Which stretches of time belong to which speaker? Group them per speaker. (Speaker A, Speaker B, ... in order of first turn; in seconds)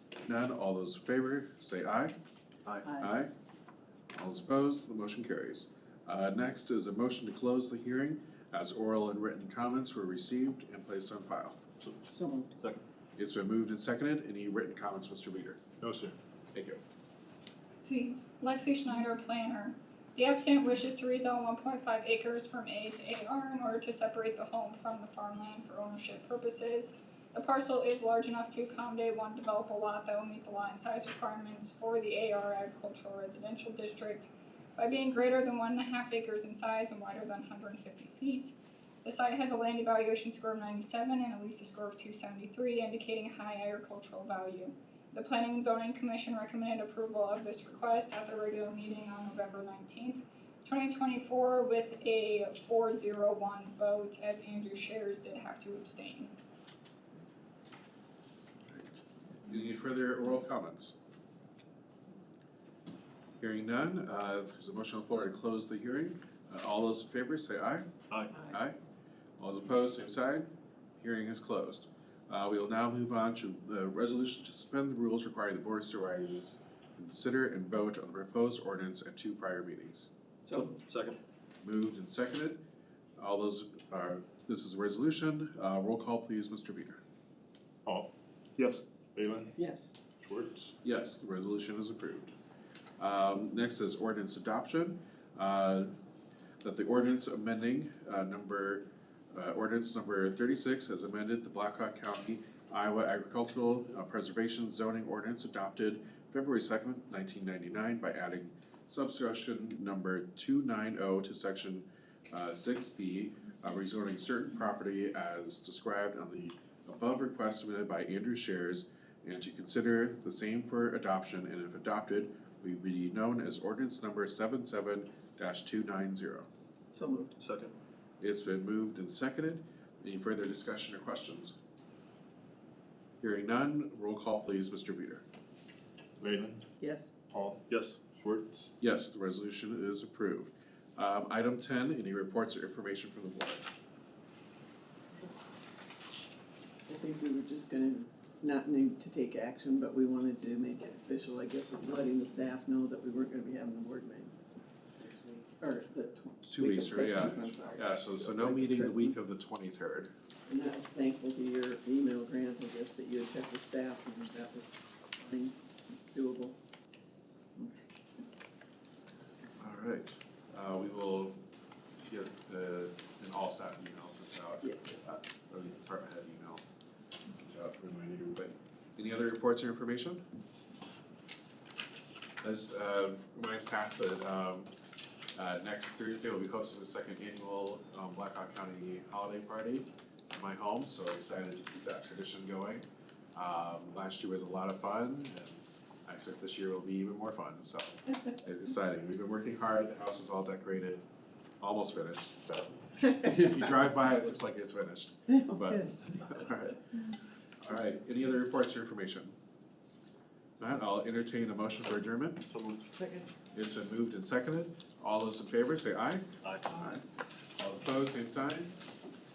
Speaker A: 0.2-2.1, 2.8-3.3, 4.1-11.6, 13.2-15.6, 16.5-16.8, 59.4-60.9, 63.4-68.8, 69.4-80.1, 81.6-82.6, 83.2-87.0, 90.8-92.3, 93.0-95.9, 96.6-126.5, 128.2-131.6, 133.2-135.2, 138.8-143.6, 156.4-160.1, 169.6-171.4, 172.0-176.6, 177.4-180.2, 182.4-184.7, 185.3-201.0, 201.6-209.3, 210.6-212.4, 213.5-216.2, 217.6-218.7
Speaker B: 12.1-12.5, 89.6-89.9, 126.9-127.3, 136.8-137.1, 146.9-154.4, 155.0-159.3, 160.5-165.6, 166.1-166.6, 167.6-167.8, 213.0-213.3
Speaker C: 15.8-16.2, 87.8-88.1, 89.1-89.5, 90.2-90.7, 136.2-136.7, 137.3-138.7
Speaker D: 17.8-56.3
Speaker E: 80.5-81.2, 127.4-127.7, 137.7-138.0, 212.5-212.9, 216.4-216.8